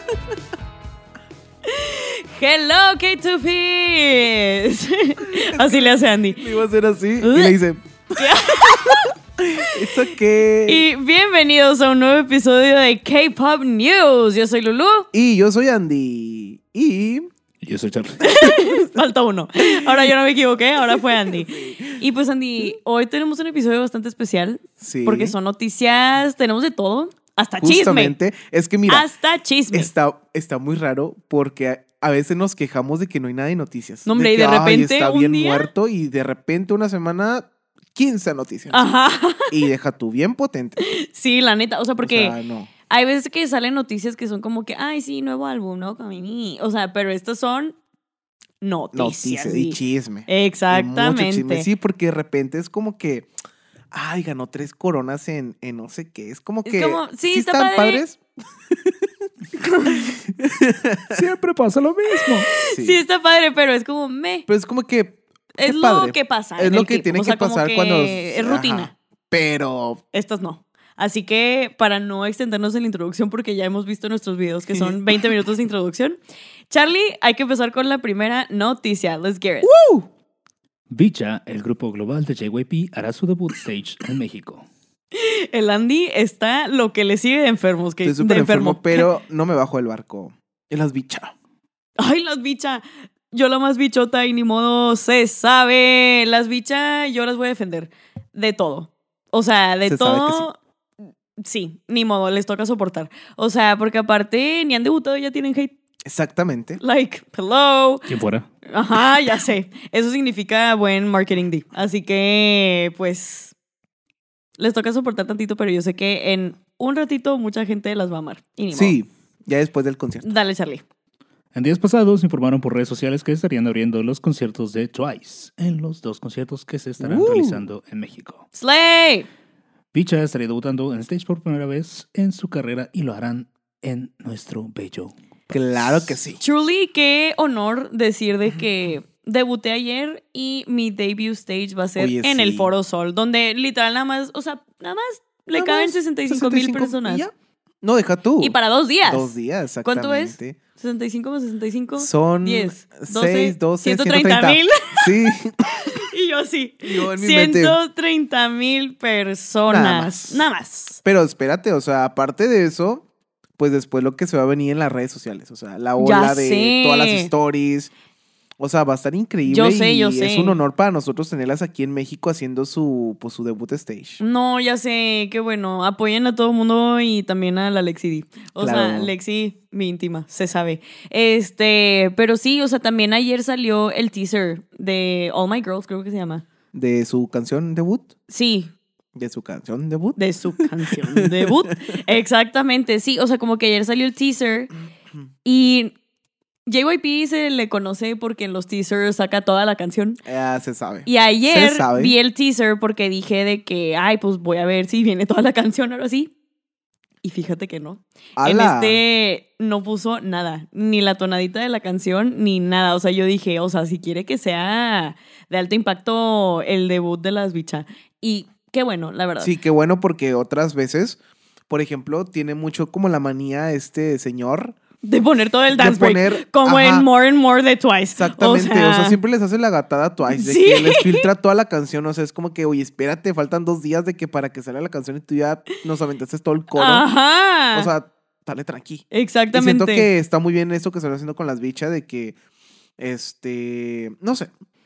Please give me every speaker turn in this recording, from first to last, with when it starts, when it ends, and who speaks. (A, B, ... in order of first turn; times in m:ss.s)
0:01.6-0:06.5 A
0:05.3-0:10.9 B
0:07.2-0:07.6 A
0:08.2-0:09.1 A
0:10.7-0:15.1 A
0:15.1-0:17.3 B
0:17.6-0:18.3 C
0:18.2-0:28.1 A
0:18.4-0:18.7 B
0:20.9-0:22.0 B
0:24.8-0:25.4 B
0:27.6-0:29.0 B
0:28.9-0:29.9 A
0:29.7-0:38.8 B
0:34.0-0:35.7 A
0:38.7-0:39.5 A
0:39.5-0:40.8 B
0:40.8-0:42.3 A
0:42.0-0:42.7 B
0:42.9-0:47.7 A
0:48.6-0:51.6 A
0:48.9-0:53.3 B
0:53.9-0:58.2 B
0:56.7-0:58.0 A
0:59.6-1:00.1 A
0:59.8-1:01.2 B
1:01.1-1:02.5 C
1:02.2-1:04.5 A
1:02.7-1:03.0 B
1:04.5-1:10.0 B
1:05.6-1:08.9 A
1:10.1-1:16.2 A
1:16.7-1:19.7 A
1:19.6-1:20.1 B
1:20.9-1:24.7 C
1:25.1-1:29.0 A
1:28.0-1:31.3 B
1:32.0-1:40.6 A
1:39.8-1:40.5 B
1:41.4-1:45.7 A
1:46.0-1:46.8 B
1:46.8-1:48.1 A
1:48.1-1:48.5 C
1:48.7-1:53.5 A
1:54.6-1:59.0 A
1:58.7-2:00.3 B
2:00.2-2:00.8 A
2:01.5-2:08.4 C
2:07.0-2:07.6 B
2:08.5-2:09.3 A
2:09.9-2:15.1 C
2:15.5-2:16.4 B
2:16.4-2:27.2 A
2:22.0-2:22.7 B
2:25.5-2:30.6 B
2:28.4-2:29.3 A
2:29.8-2:41.0 A
2:32.0-2:36.0 B
2:36.8-2:37.8 B
2:39.7-2:40.5 B
2:41.0-2:43.0 B
2:43.6-2:47.9 B
2:46.0-2:47.3 A
2:48.6-2:54.2 B
2:49.5-2:50.6 A
2:54.2-3:06.4 A
2:58.6-2:59.1 B
3:06.7-3:08.1 B
3:08.3-3:08.7 A
3:09.1-3:12.0 B
3:10.2-3:14.7 A
3:15.4-3:15.9 A
3:16.7-3:20.2 A
3:20.2-3:22.2 B
3:21.0-3:26.3 A
3:27.2-3:39.5 A
3:28.4-3:29.0 B
3:39.4-3:41.2 B
3:41.7-3:44.7 B
3:45.0-3:49.2 A
3:45.7-3:47.1 B
3:48.2-3:57.0 B
3:50.3-3:51.3 A
3:56.8-3:57.9 A
3:57.7-4:02.3 B
3:59.1-4:00.1 A
4:03.0-4:04.5 B